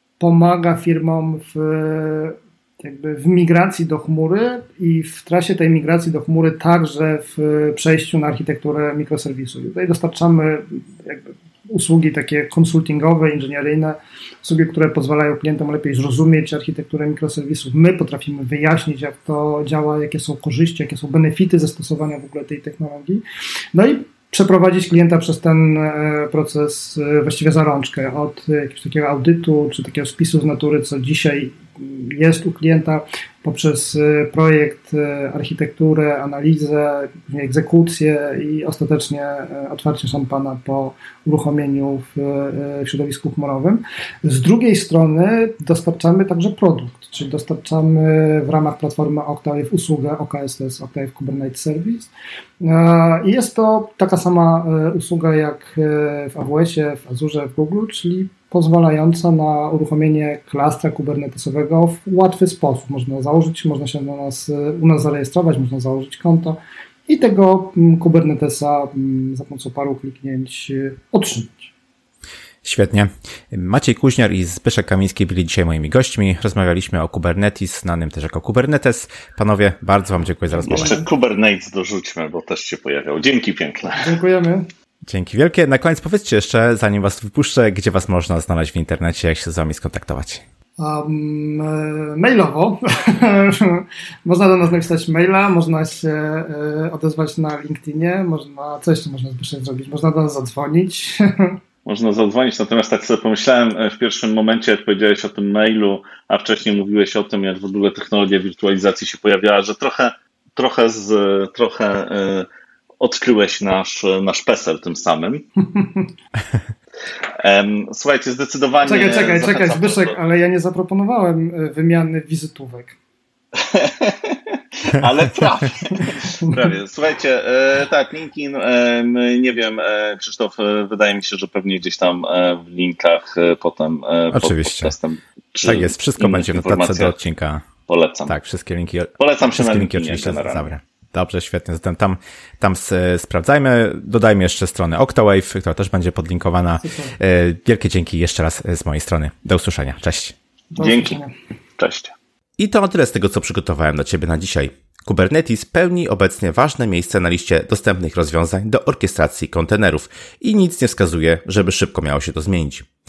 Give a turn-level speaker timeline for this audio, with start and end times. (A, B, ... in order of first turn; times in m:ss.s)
0:00.2-1:11.7 A
1:12.6-1:21.0 B
1:20.6-1:21.0 A
1:20.6-1:24.2 C
1:24.0-1:24.7 A
1:25.1-1:30.4 B
1:30.8-1:41.6 A
1:41.8-1:52.5 C
1:53.0-1:55.4 C
1:55.6-1:56.1 A
1:57.4-2:00.2 C
1:58.8-2:03.0 A
2:03.5-2:17.2 C
2:14.3-2:14.9 B
2:15.6-2:17.7 B
2:17.9-2:18.3 C
2:18.3-2:30.3 B
2:19.2-2:20.7 C
2:26.8-2:27.1 A
2:30.7-2:31.3 A
2:30.8-2:31.2 C
2:31.8-2:32.1 C
2:32.6-2:42.9 B